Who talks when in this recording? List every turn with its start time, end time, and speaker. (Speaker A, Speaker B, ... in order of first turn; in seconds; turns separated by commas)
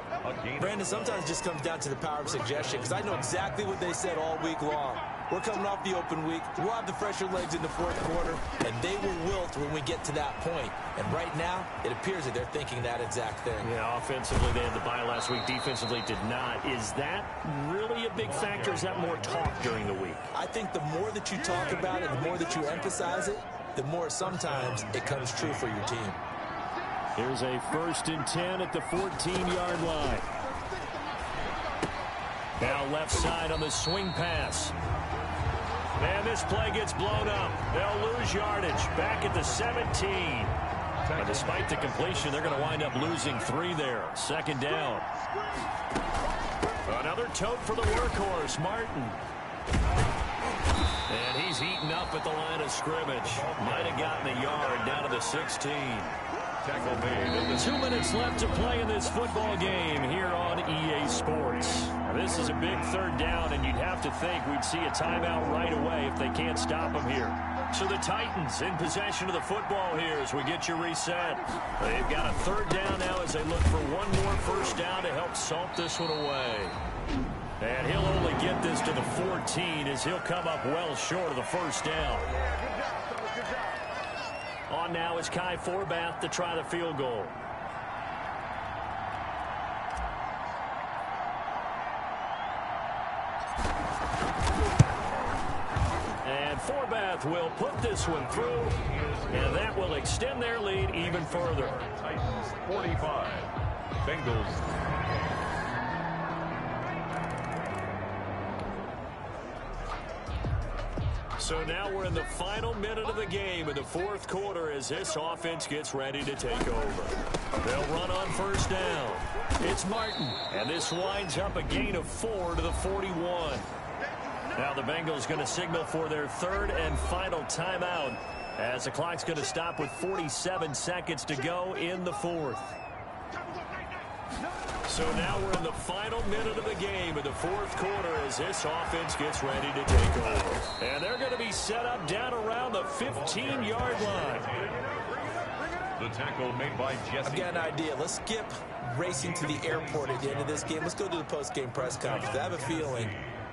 Speaker A: 0.2-1.3, Speaker B: 0.6-13.7, Speaker A: 2.2-3.7, Speaker C: 13.6-20.2, Speaker A: 18.2-20.0, Speaker B: 20.3-26.2, Speaker A: 22.0-23.0, Speaker A: 24.3-25.6, Speaker C: 27.2-30.3, Speaker C: 32.6-34.8, Speaker C: 36.0-40.5, Speaker A: 41.0-43.5, Speaker C: 41.2-45.1, Speaker C: 46.9-49.2, Speaker C: 51.1-56.2, Speaker A: 53.2-55.2, Speaker A: 56.6-57.8, Speaker C: 57.5-76.8, Speaker C: 77.6-82.3, Speaker C: 84.7-87.4, Speaker C: 96.2-98.8, Speaker A: 98.3-99.8, Speaker C: 99.3-101.8, Speaker A: 101.3-104.7, Speaker C: 111.4-123.7, Speaker C: 124.5-132.8, Speaker C: 134.9-144.5, Speaker A: 143.0-147.8, Speaker B: 147.2-153.2, Speaker A: 149.1-150.8, Speaker A: 151.8-153.4